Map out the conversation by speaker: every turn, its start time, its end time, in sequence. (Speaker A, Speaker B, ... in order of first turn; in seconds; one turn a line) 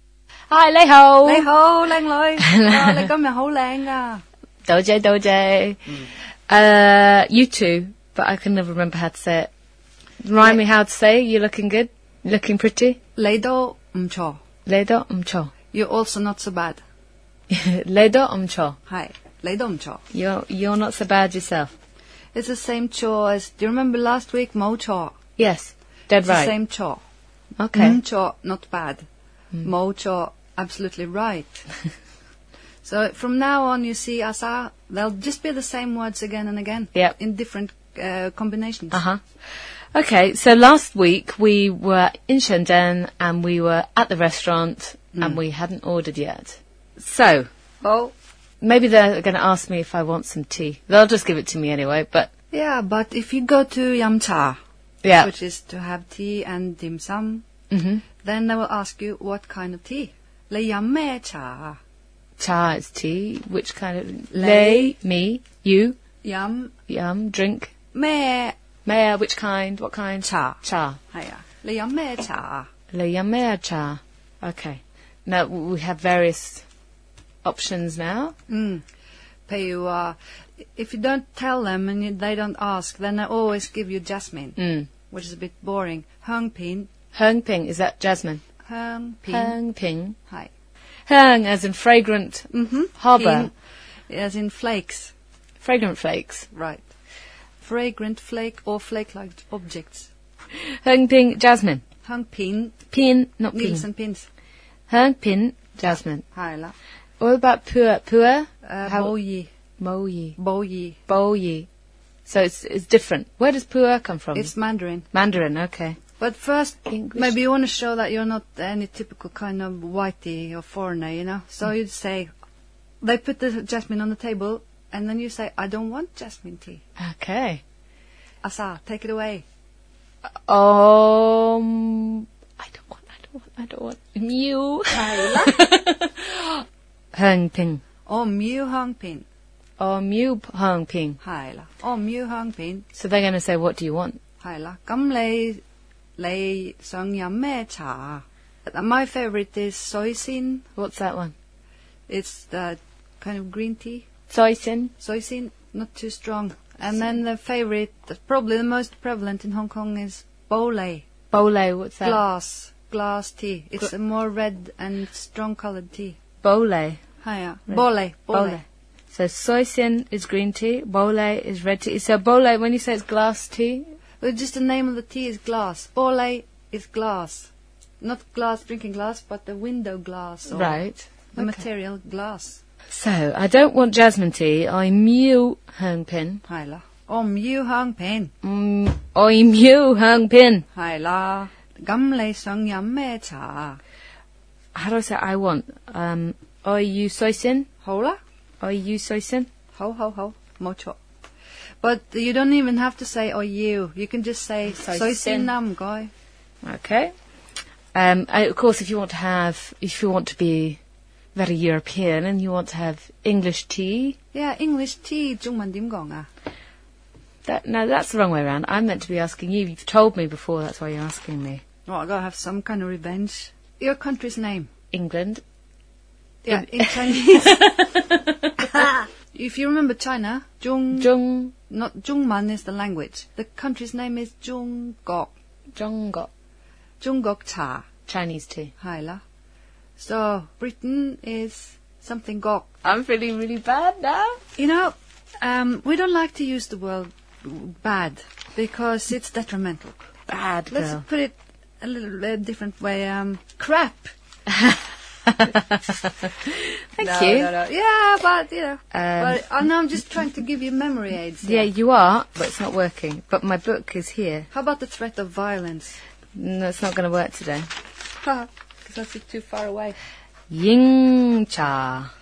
Speaker A: 0.5-1.5
Speaker B: 1.2-4.2
Speaker A: 2.4-3.1
Speaker A: 4.7-9.5
Speaker A: 10.2-13.0
Speaker B: 13.2-14.4
Speaker A: 14.7-15.5
Speaker B: 15.7-16.8
Speaker A: 17.5-18.8
Speaker B: 18.9-20.0
Speaker A: 20.1-21.7
Speaker B: 22.3-25.1
Speaker A: 25.4-26.6
Speaker B: 26.2-27.0
Speaker A: 27.6-28.0
Speaker B: 27.7-29.0
Speaker B: 29.6-31.6
Speaker B: 32.8-39.0
Speaker A: 38.9-39.2
Speaker A: 40.0-47.5
Speaker B: 45.1-45.4
Speaker B: 47.8-48.1
Speaker A: 48.6-52.3
Speaker B: 52.5-54.6
Speaker A: 55.0-55.3
Speaker B: 55.2-57.5
Speaker A: 57.7-58.0
Speaker B: 58.2-61.8
Speaker A: 62.4-66.0
Speaker B: 64.3-65.0
Speaker B: 66.2-66.7
Speaker A: 66.9-67.7
Speaker B: 67.9-68.6
Speaker A: 68.8-71.0
Speaker B: 70.2-72.7
Speaker A: 72.9-76.7
Speaker A: 77.4-78.3
Speaker B: 78.5-78.8
Speaker B: 79.5-86.9
Speaker A: 84.6-84.9
Speaker A: 87.1-88.4
Speaker B: 88.7-89.6
Speaker A: 89.3-90.2
Speaker A: 91.1-93.5
Speaker B: 92.5-93.5
Speaker B: 94.1-95.1
Speaker A: 95.6-96.5
Speaker B: 96.5-96.8
Speaker B: 97.6-100.1
Speaker A: 100.7-101.8
Speaker B: 102.0-102.8
Speaker A: 102.9-103.9
Speaker B: 103.5-104.3
Speaker A: 104.9-106.2
Speaker B: 106.3-106.7
Speaker A: 107.2-109.1
Speaker B: 108.7-109.5
Speaker A: 109.8-110.4
Speaker B: 110.4-111.0
Speaker A: 111.1-111.7
Speaker A: 112.3-114.5
Speaker B: 114.3-115.1
Speaker A: 115.1-116.0
Speaker B: 116.2-122.3
Speaker A: 116.9-117.4
Speaker B: 123.0-126.8
Speaker A: 127.0-127.6
Speaker B: 128.4-129.4
Speaker A: 130.5-136.6
Speaker B: 134.9-135.7
Speaker A: 137.1-137.8
Speaker B: 138.1-139.3
Speaker A: 139.8-141.2
Speaker B: 141.2-142.9
Speaker A: 142.9-144.2
Speaker B: 144.4-145.6
Speaker B: 146.2-150.7
Speaker A: 150.8-151.3
Speaker B: 152.1-154.1
Speaker A: 154.3-154.9
Speaker B: 155.0-161.1
Speaker A: 161.3-162.2
Speaker B: 162.0-166.2
Speaker A: 166.4-167.0
Speaker B: 167.2-168.6
Speaker A: 167.7-173.9
Speaker B: 174.2-180.8
Speaker A: 180.5-181.6
Speaker B: 181.4-182.6
Speaker A: 182.9-186.4
Speaker B: 186.5-188.3
Speaker A: 188.4-190.7
Speaker B: 190.7-193.8
Speaker A: 194.8-197.7
Speaker B: 197.8-198.2
Speaker A: 198.6-199.5
Speaker B: 199.8-201.0
Speaker B: 201.8-206.1
Speaker A: 204.7-205.5
Speaker A: 206.6-207.1
Speaker A: 207.9-210.8
Speaker A: 211.3-214.2
Speaker B: 214.3-216.3
Speaker A: 217.4-221.6
Speaker B: 221.9-224.7
Speaker A: 224.9-225.4
Speaker B: 226.4-227.8
Speaker A: 226.5-228.9
Speaker B: 228.7-231.1
Speaker A: 230.9-231.5
Speaker B: 231.7-235.3
Speaker A: 235.8-236.3
Speaker B: 237.0-237.9
Speaker A: 238.1-238.7
Speaker B: 238.8-239.2
Speaker B: 240.0-242.7
Speaker A: 242.8-244.4
Speaker B: 244.6-250.1
Speaker A: 250.3-251.0
Speaker B: 250.7-254.1
Speaker A: 254.6-257.5
Speaker B: 257.0-261.7
Speaker A: 258.9-259.4
Speaker A: 261.4-264.5
Speaker B: 264.5-266.0
Speaker A: 266.4-267.7
Speaker B: 268.2-270.0
Speaker A: 270.5-272.1